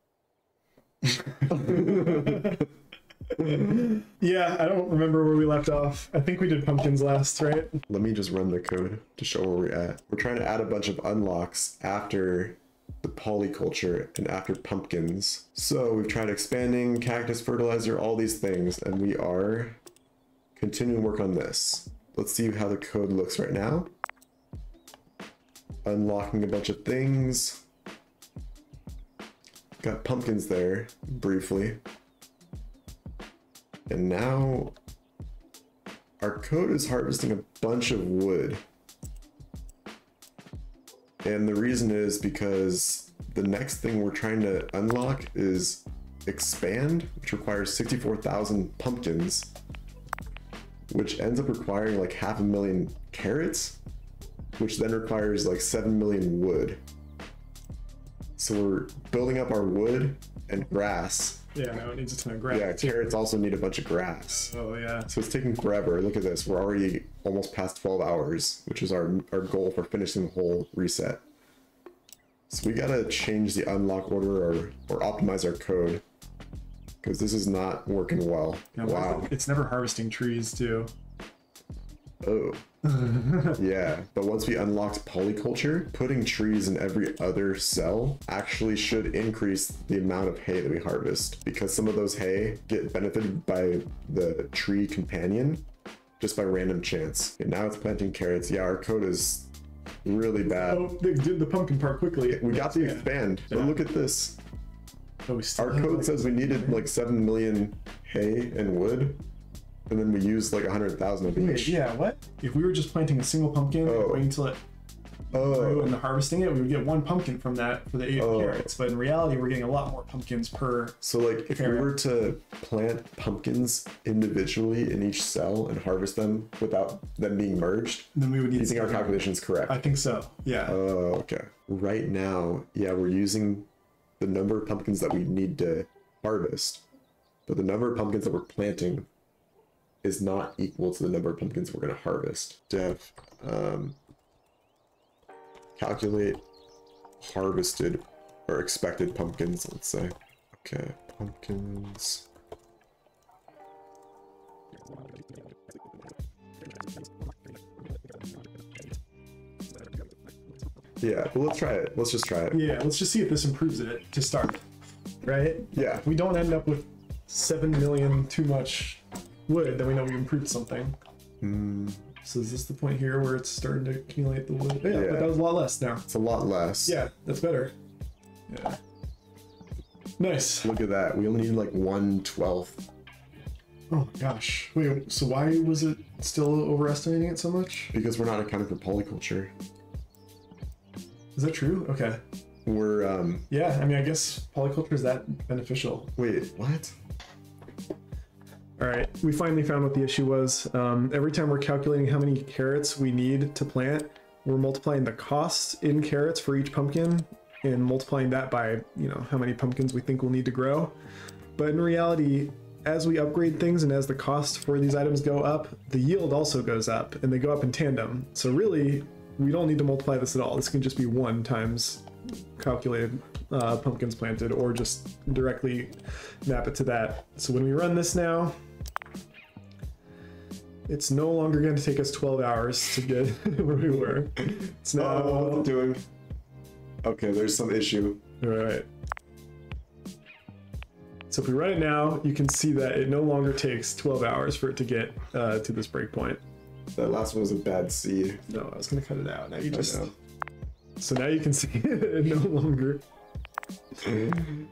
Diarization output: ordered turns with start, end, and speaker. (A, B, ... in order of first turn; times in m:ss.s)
0:01.0-0:02.6 A
0:01.6-0:02.4 B
0:03.4-0:07.8 A
0:07.9-0:19.8 B
0:20.6-0:23.9 B
0:25.8-0:27.6 B
0:29.8-0:31.8 B
0:33.9-0:34.8 B
0:36.2-0:38.6 B
0:41.2-0:49.5 B
0:50.9-0:53.8 B
0:54.6-0:56.8 B
0:58.4-1:01.4 B
1:01.5-1:03.1 A
1:02.5-1:04.6 B
1:04.3-1:05.1 A
1:05.1-1:11.2 B
1:12.5-1:16.0 B
1:17.0-1:19.3 B
1:18.8-1:20.9 A
1:22.2-1:22.6 B
1:22.8-1:23.6 A
1:23.5-1:35.6 B
1:36.2-1:39.5 B
1:40.0-1:40.9 B
1:40.4-1:43.8 A
1:42.3-1:44.4 B
1:45.3-1:46.8 A
1:45.6-1:49.2 B
1:49.9-1:51.8 B
1:51.3-1:54.6 A
1:53.8-1:54.3 B
1:55.3-1:56.0 B
1:55.3-2:01.0 A
1:58.2-1:58.7 B
2:01.0-2:09.8 B
2:01.5-2:01.9 A
2:08.2-2:10.8 A
2:10.7-2:13.7 B
2:14.2-2:16.8 B
2:17.5-2:19.1 B
2:20.0-2:24.0 B
2:25.8-2:26.4 B
2:27.2-2:32.2 B
2:41.0-2:42.6 B
2:42.5-2:44.6 A
2:45.2-2:51.0 A
2:45.7-2:46.1 B
2:51.4-2:52.1 B
2:52.2-2:56.0 A
2:54.8-2:55.4 B
2:56.1-2:57.0 B
2:56.8-2:57.7 A
2:58.5-2:58.8 A
3:00.2-3:00.7 A
3:00.6-3:02.8 B
3:03.9-3:07.9 A
3:07.9-3:09.5 B
3:11.4-3:12.2 A
3:12.7-3:13.5 B
3:13.5-3:16.1 A
3:16.2-3:16.9 B
3:18.8-3:30.9 A
3:31.6-3:42.1 A
3:42.6-3:48.5 A
3:50.9-3:55.7 A
3:54.9-3:56.0 B
3:57.0-3:58.2 B
3:58.4-3:58.8 A
4:01.3-4:06.4 A
4:07.0-4:08.4 B
4:08.5-4:10.1 A
4:09.7-4:10.1 B
4:11.0-4:13.0 A